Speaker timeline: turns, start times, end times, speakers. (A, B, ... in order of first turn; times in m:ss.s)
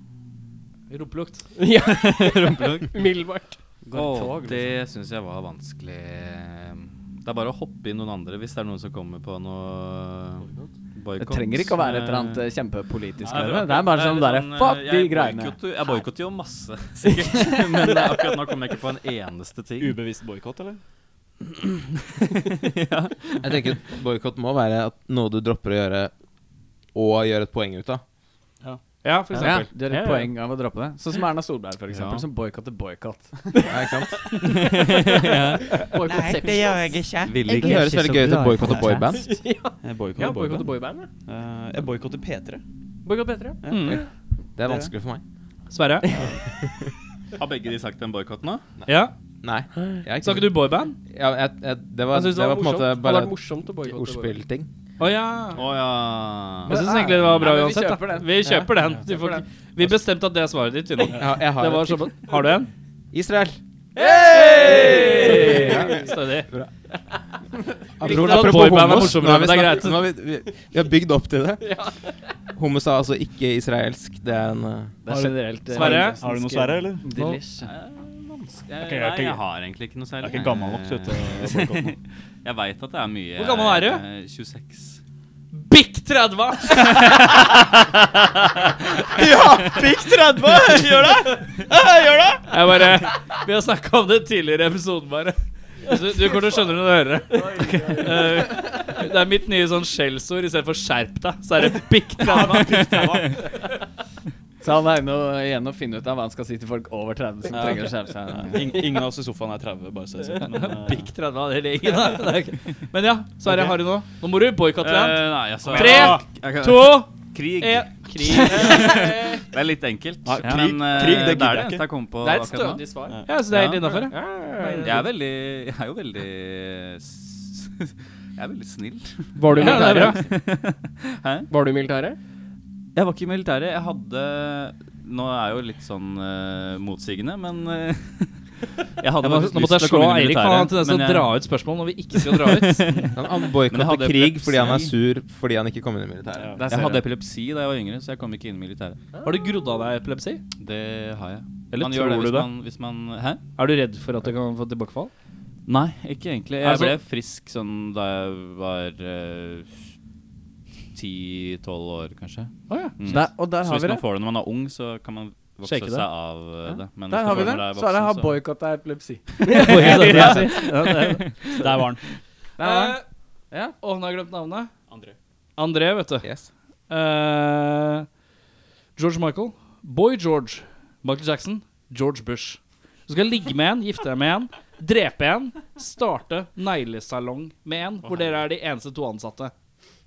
0:00.9-0:01.5 A
0:01.6-0:03.6 B
0:01.8-0:02.9 C
0:03.9-0:12.4 C
0:03.9-0:04.8 D
0:11.2-0:15.6 D
0:13.2-0:20.0 C
0:19.8-0:20.8 E
0:22.6-0:23.4 C
0:23.4-0:26.1 F
0:26.9-0:28.0 F
0:29.0-0:29.7 A
0:29.4-0:33.7 D
0:29.9-0:30.3 B
0:31.9-0:32.3 C
0:33.7-0:34.3 F
0:34.4-0:35.8 C
0:35.8-0:37.1 B
0:36.0-0:37.5 E
0:37.2-0:38.0 C
0:37.5-0:39.2 D
0:37.6-0:39.3 F
0:39.1-0:41.1 B
0:39.8-0:40.7 E
0:41.3-0:42.6 E
0:43.0-0:44.1 B
0:43.6-0:44.0 E
0:43.7-0:44.0 A
0:44.6-0:45.2 F
0:44.6-0:44.9 E
0:45.7-0:46.1 A
0:46.0-0:46.4 B
0:47.4-0:48.6 C
0:48.9-0:49.1 A
0:49.4-0:54.7 F
0:50.2-0:51.0 A
0:52.1-0:54.4 B
0:55.0-0:55.6 A
0:55.5-0:57.6 C
0:56.6-1:02.7 A
0:56.7-0:58.4 D
0:59.0-0:59.4 D
1:01.2-1:02.1 F
1:03.1-1:03.6 F
1:04.0-1:06.0 B
1:04.6-1:06.5 A
1:05.0-1:06.7 F
1:08.0-1:11.8 F
1:08.0-1:10.0 A
1:08.3-1:08.6 B
1:11.6-1:11.9 B
1:12.6-1:15.0 F
1:15.0-1:17.7 D
1:15.1-1:17.1 E
1:15.7-1:16.2 A
1:17.6-1:25.0 C
1:18.8-1:19.4 E
1:20.2-1:22.0 E
1:23.4-1:24.0 A
1:25.5-1:27.2 A
1:27.0-1:27.8 C
1:29.2-1:32.4 E
1:29.6-1:30.0 C
1:30.6-1:31.2 C
1:32.5-1:43.0 A
1:37.3-1:38.8 D
1:42.2-1:43.3 E
1:42.5-1:43.3 C
1:44.6-1:48.8 D
1:47.5-1:51.1 E
1:50.4-1:58.9 A
1:53.4-1:53.8 E
1:54.8-2:04.1 C
1:55.6-1:56.2 E
1:58.6-1:59.3 B
2:00.2-2:01.9 E
2:02.2-2:03.2 B
2:03.1-2:03.4 E
2:03.3-2:05.0 A
2:03.9-2:05.1 B
2:04.8-2:11.5 C
2:09.4-2:10.2 B
2:09.5-2:10.2 A
2:11.5-2:12.2 B
2:12.9-2:18.4 C
2:19.0-2:21.4 C
2:19.2-2:22.9 A
2:22.2-2:24.9 C
2:23.1-2:26.6 F
2:26.6-2:27.0 D
2:26.6-2:29.0 C
2:29.1-2:29.4 B
2:29.2-2:30.4 A
2:30.6-2:33.4 C
2:31.7-2:32.5 A
2:33.6-2:35.1 A
2:35.6-2:39.7 C
2:36.6-2:37.0 A
2:40.9-2:48.4 C
2:42.7-2:42.9 A
2:43.0-2:44.0 D
2:45.6-2:46.1 A
2:47.1-2:50.3 D
2:49.5-2:49.9 B
2:49.5-2:51.3 A
2:49.8-2:51.7 C
2:50.1-2:50.4 E
2:51.6-2:52.0 E
2:52.6-2:53.0 D
2:52.6-2:53.0 A
2:53.8-2:54.7 A
2:54.9-2:55.2 E
2:55.6-2:56.3 A
2:56.2-2:56.5 F
2:56.9-2:58.1 A
2:59.0-3:09.5 A